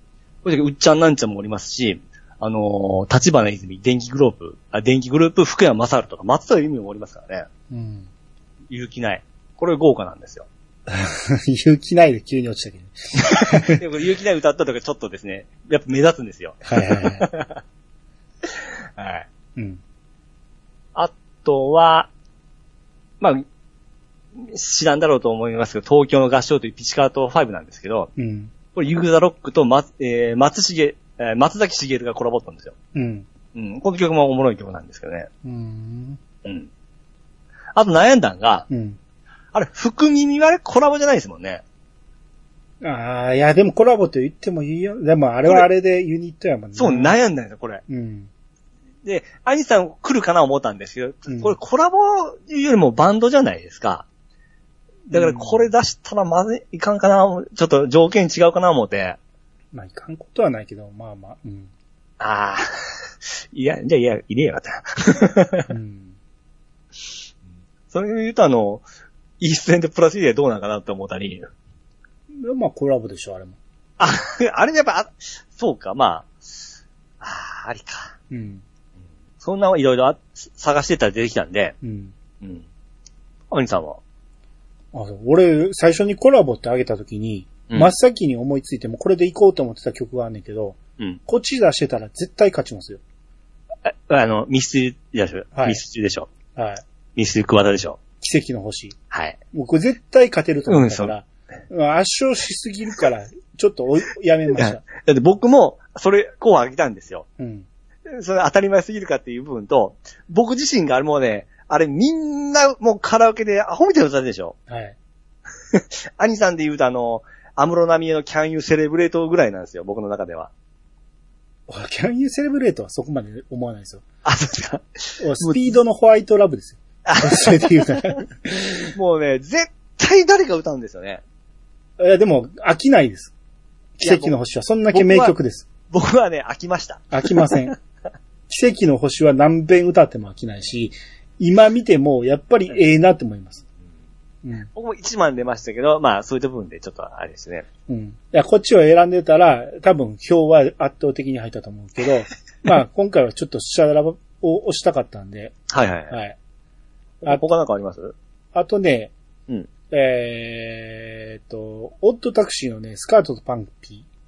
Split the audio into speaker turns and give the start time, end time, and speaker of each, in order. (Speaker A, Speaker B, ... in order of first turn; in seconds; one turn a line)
Speaker A: 0.4-7.5
Speaker B: 7.7-8.1
Speaker A: 8.7-10.5
Speaker B: 10.9-13.8
Speaker A: 13.4-17.6
Speaker B: 16.7-17.3
Speaker A: 18.4-19.3
Speaker B: 19.6-19.8
Speaker A: 20.9-22.1
Speaker A: 24.4-28.1
Speaker B: 28.2-28.5
Speaker A: 28.8-32.7
Speaker B: 32.9-33.3
Speaker A: 33.5-35.3
Speaker B: 35.4-36.2
Speaker A: 36.5-36.7
Speaker A: 37.7-38.7
Speaker B: 38.7-39.0
Speaker A: 39.5-41.6
Speaker B: 42.8-47.2
Speaker A: 46.8-47.8
Speaker B: 47.9-48.3
Speaker A: 49.0-54.1
Speaker B: 51.3-51.6
Speaker A: 55.1-59.2
Speaker B: 55.1-55.7
Speaker B: 59.7-61.7
Speaker A: 62.2-65.7
Speaker B: 65.7-66.2
Speaker A: 67.9-68.8
Speaker A: 69.4-71.5
Speaker B: 72.3-73.6
Speaker A: 74.0-76.7
Speaker A: 77.2-78.2
Speaker B: 78.3-78.6
Speaker A: 79.4-81.8
Speaker B: 81.8-82.2
Speaker A: 82.4-82.7
Speaker A: 83.5-84.0
Speaker B: 84.9-93.0
Speaker A: 93.8-96.3
Speaker B: 95.5-95.8
Speaker B: 96.5-96.8
Speaker A: 97.2-98.0
Speaker B: 98.2-99.0
Speaker A: 99.1-99.4
Speaker B: 99.5-104.8
Speaker A: 100.7-101.1
Speaker A: 104.6-107.2
Speaker B: 107.4-107.7
Speaker A: 108.1-114.6
Speaker B: 114.7-115.0
Speaker A: 115.7-120.5
Speaker B: 121.7-124.0
Speaker A: 124.2-125.6
Speaker B: 125.2-128.9
Speaker A: 127.1-128.1
Speaker A: 128.9-131.2
Speaker B: 132.0-133.3
Speaker B: 134.0-135.7
Speaker A: 134.0-134.4
Speaker A: 134.9-135.3
Speaker A: 135.9-137.7
Speaker B: 137.1-137.8
Speaker B: 138.5-143.6
Speaker B: 144.4-144.7
Speaker A: 144.7-147.7
Speaker B: 147.9-155.6
Speaker A: 155.7-156.2
Speaker B: 156.1-156.4
Speaker A: 157.2-158.2
Speaker B: 158.5-159.1
Speaker B: 159.9-164.1